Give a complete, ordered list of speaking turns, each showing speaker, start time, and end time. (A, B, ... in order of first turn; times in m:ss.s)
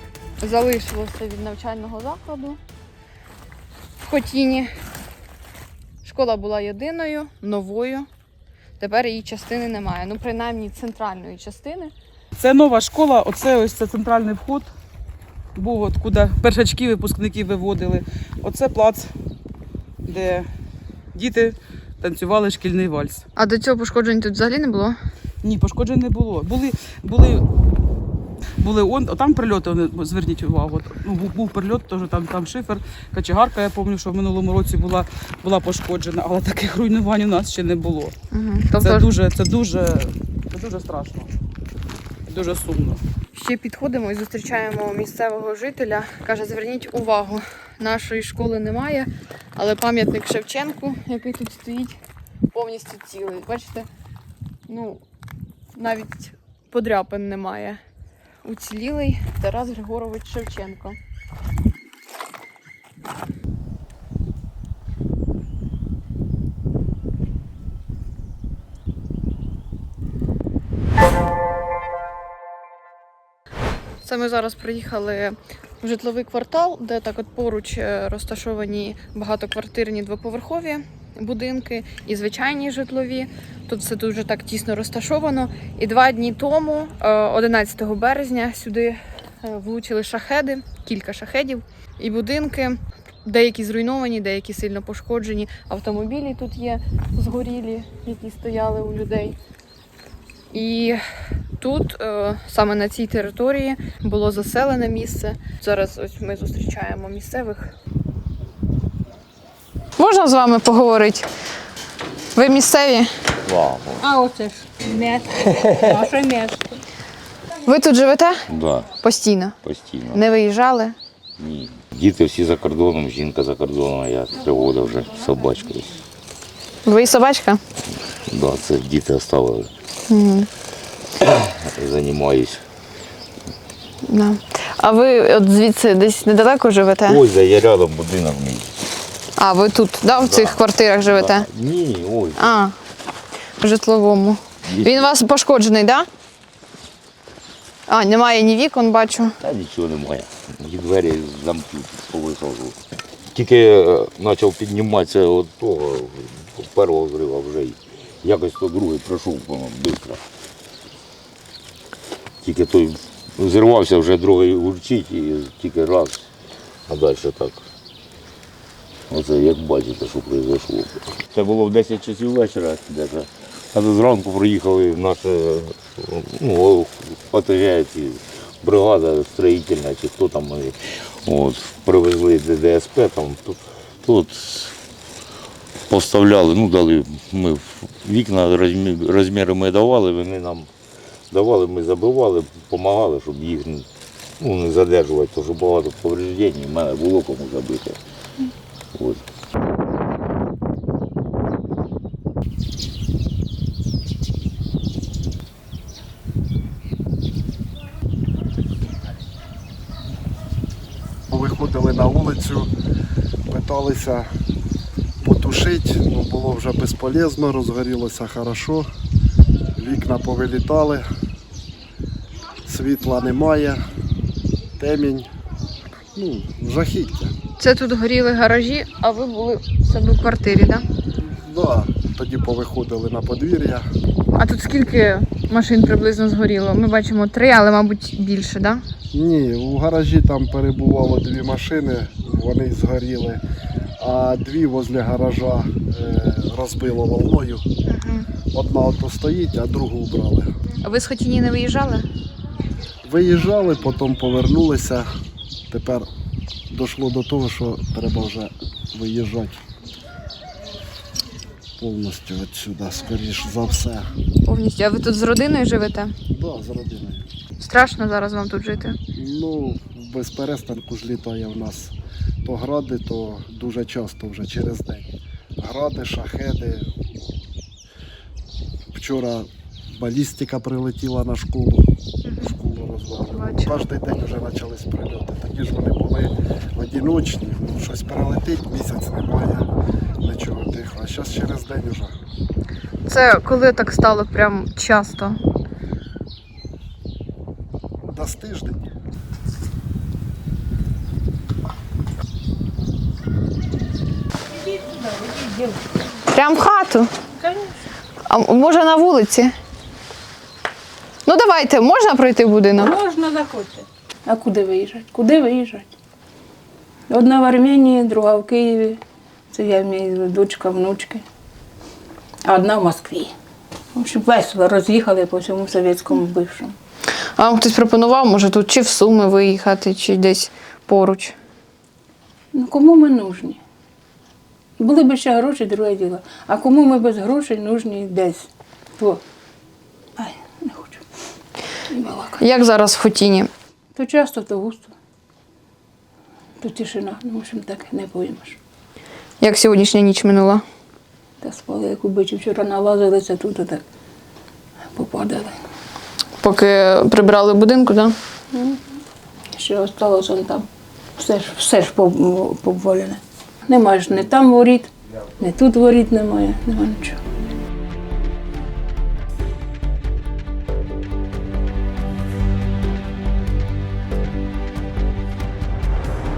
0:00.4-0:02.6 A
0:04.0-0:04.7 A
0:06.0-0:08.1 A
0:08.8-0:11.9 A
0:12.3-0:14.7 B
0:15.5-0:19.1 B
0:20.0-0:20.5 B
0:21.1-0:23.2 B
0:23.4-0:25.0 A
0:25.4-0:27.4 B
0:28.6-0:38.1 B
0:38.3-0:39.1 A
0:38.8-0:41.3 B
0:42.3-0:43.0 B
0:43.3-0:52.0 A
0:52.5-0:53.9 A
0:54.7-0:55.0 A
0:55.7-0:57.8 A
0:58.4-1:01.0 A
1:14.0-1:39.4 A
1:40.5-1:41.0 A
1:41.6-1:47.7 A
1:50.0-1:51.3 A
1:52.3-1:53.1 A
1:53.4-1:54.0 C
1:54.0-1:56.8 D
1:57.6-1:58.4 A
1:58.5-1:59.0 C
1:59.0-1:59.6 A
1:59.6-2:00.2 C
2:00.1-2:01.0 A
2:01.4-2:06.0 C
2:06.8-2:07.6 A
2:08.3-2:09.7 C
2:10.1-2:10.5 A
2:11.2-2:12.6 C
2:14.0-2:17.2 A
2:17.0-2:18.8 C
2:19.4-2:21.5 A
2:20.2-2:22.6 C
2:22.4-2:22.8 A
2:23.6-2:26.1 A
2:24.6-2:25.1 C
2:27.9-2:29.4 A
2:29.4-2:32.8 C
2:33.3-2:40.2 C
2:42.4-2:46.2 C
2:46.9-2:47.7 C
2:49.1-3:04.8 C
3:05.9-3:10.7 C
3:11.3-3:13.9 C
3:14.4-3:18.0 C
3:18.9-3:19.2 C
3:31.3-3:32.7 E
3:33.5-3:34.3 E
3:35.2-3:38.9 E
3:39.8-3:41.0 E
3:42.6-3:43.8 E
3:44.8-3:45.3 E
3:46.2-3:47.3 E
3:47.6-3:50.8 A
3:51.4-3:53.9 E
3:54.3-3:58.8 A
3:59.1-4:03.4 E
4:04.0-4:07.6 E
4:07.9-4:08.3 A
4:08.5-4:10.5 E
4:10.8-4:12.0 A
4:13.0-4:15.1 E
4:15.7-4:16.0 E
4:16.7-4:19.6 E
4:21.8-4:24.1 E
4:24.4-4:26.1 A
4:26.3-4:27.3 E
4:27.6-4:29.0 A
4:29.2-4:31.9 E
4:32.4-4:35.1 E
4:35.6-4:36.9 E
4:38.9-4:41.9 E
4:42.2-4:42.5 A
4:42.4-4:49.6 E
4:43.3-4:43.8 A
4:50.2-4:52.1 E
4:53.0-4:55.4 A
4:58.1-4:58.8 E
5:04.6-5:06.0 D
5:06.3-5:07.1 A
5:07.4-5:07.8 D
5:08.3-5:09.5 A
5:11.2-5:13.0 A
5:12.7-5:15.9 D
5:17.1-5:21.2 D
5:22.4-5:23.3 D
5:23.9-5:26.8 D
5:27.4-5:31.4 A
5:32.5-5:33.6 D
5:34.8-5:39.2 D
5:40.2-5:41.0 D
5:41.9-5:42.4 D
5:42.4-5:43.5 A
5:43.9-5:44.9 D
5:46.6-5:48.6 D
5:49.4-5:50.6 A
5:51.4-5:53.8 D
5:54.9-5:55.6 D
5:56.4-5:58.1 A
5:58.5-5:58.8 D
5:59.5-6:07.2 D